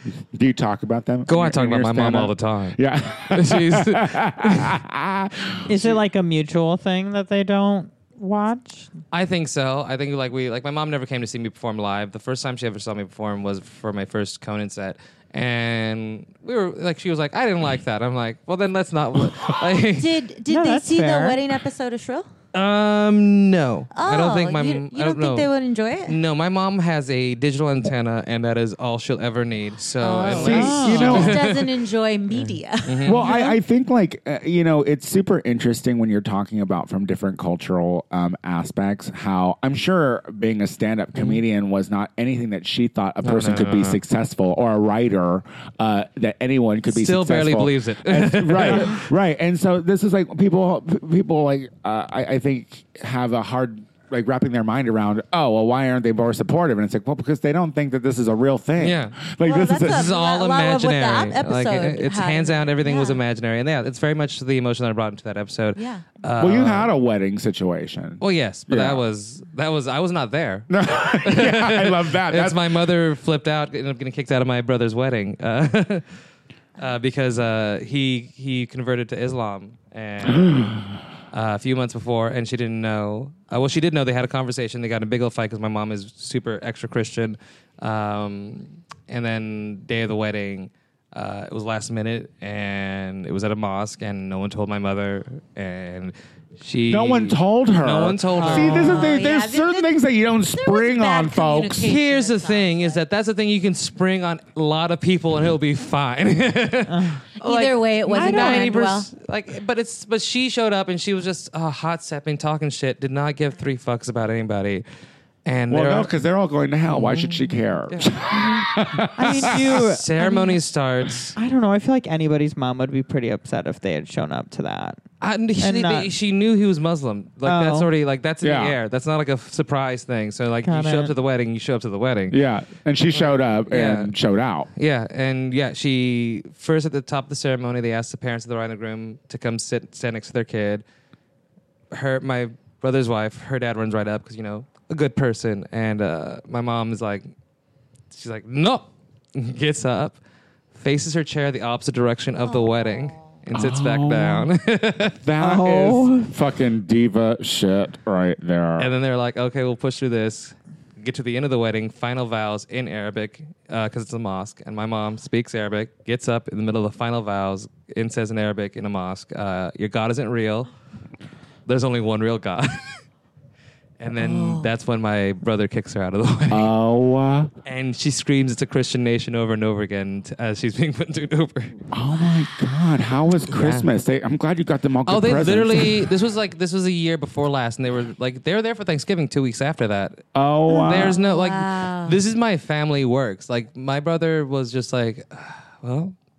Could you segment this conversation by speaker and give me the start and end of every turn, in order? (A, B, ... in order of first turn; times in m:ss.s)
0:00.3-0:06.0 A
0:01.3-0:02.8 B
0:03.3-0:04.8 B
0:05.7-0:08.9 C
0:09.1-0:20.2 B
0:19.8-0:22.3 D
0:20.5-0:21.4 C
0:22.5-0:25.5 B
0:23.9-0:26.2 D
0:26.1-0:33.2 B
0:30.0-0:33.6 D
0:30.3-0:31.4 A
0:30.4-0:31.3 C
0:33.0-1:00.0 A
0:41.2-0:41.4 B
0:43.2-0:44.0 B
0:46.9-0:49.0 B
0:58.8-0:59.2 B
0:59.4-1:03.2 D
0:59.8-1:06.9 B
1:05.8-1:06.0 D
1:06.4-1:09.0 A
1:08.2-1:16.1 B
1:10.7-1:12.6 A
1:16.8-1:20.7 B
1:21.3-1:39.2 B
1:36.9-1:41.9 A
1:38.4-1:39.2 C
1:38.6-1:40.0 D
1:40.5-1:43.0 D
1:41.8-1:54.8 B
1:46.9-1:47.2 C
1:47.4-1:49.1 D
1:48.1-1:48.7 C
1:55.5-1:56.1 B
1:55.7-1:59.8 A
1:56.9-1:58.1 B
1:59.2-2:00.6 C
1:59.2-2:01.4 B
2:01.4-2:05.0 C
2:05.2-2:12.4 B
2:05.6-2:06.1 C
2:07.4-2:07.9 C
2:08.4-2:08.8 A
2:10.6-2:11.1 C
2:12.3-2:14.7 A
2:13.1-2:14.1 B
2:14.8-2:20.8 B
2:21.9-2:27.3 B
2:28.1-2:30.2 B
2:30.7-2:35.2 B
2:32.4-2:33.4 D
2:33.5-2:34.5 A
2:35.2-2:38.9 A
2:35.4-2:36.3 C
2:38.8-2:50.7 B
2:51.7-2:53.0 B
2:54.0-2:56.7 B
2:54.2-2:54.7 D
2:56.5-2:57.5 A
2:57.6-3:01.8 B
3:01.9-3:06.1 A
3:03.5-3:03.9 B
3:05.1-3:16.2 B
3:10.3-3:11.2 A
3:10.9-3:12.2 D